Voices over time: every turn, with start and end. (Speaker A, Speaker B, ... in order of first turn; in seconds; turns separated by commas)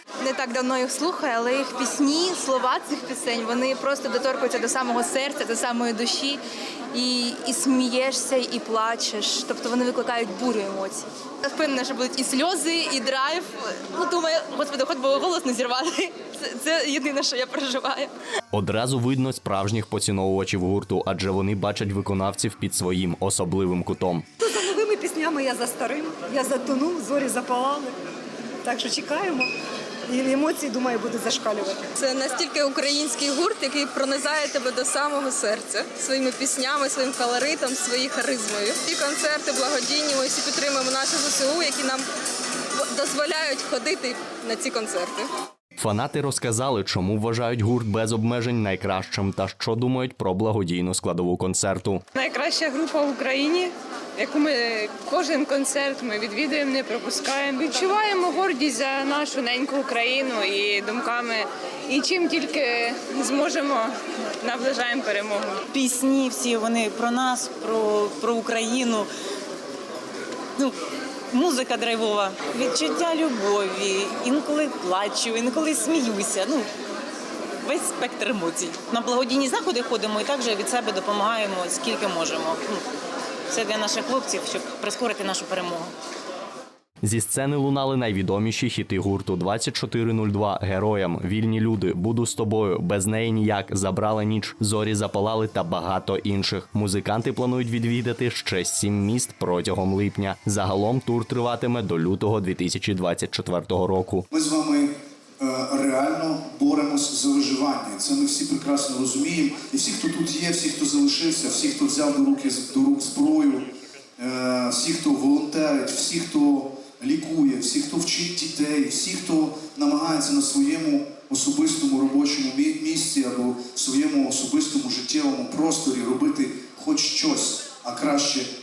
Speaker A: 0.2-6.4, Speaker A: 6.9-18.1, Speaker B: 18.5-24.3, Speaker C: 24.4-27.9, Speaker C: 28.6-29.5, Speaker C: 30.1-31.9, Speaker D: 32.0-42.0, Speaker D: 42.8-45.3, Speaker B: 45.8-52.0, Speaker E: 52.2-65.6, Speaker F: 65.7-69.1, Speaker F: 71.3-76.7, Speaker F: 77.6-82.8, Speaker F: 83.5-85.9, Speaker B: 87.0-104.3, Speaker G: 104.3-128.5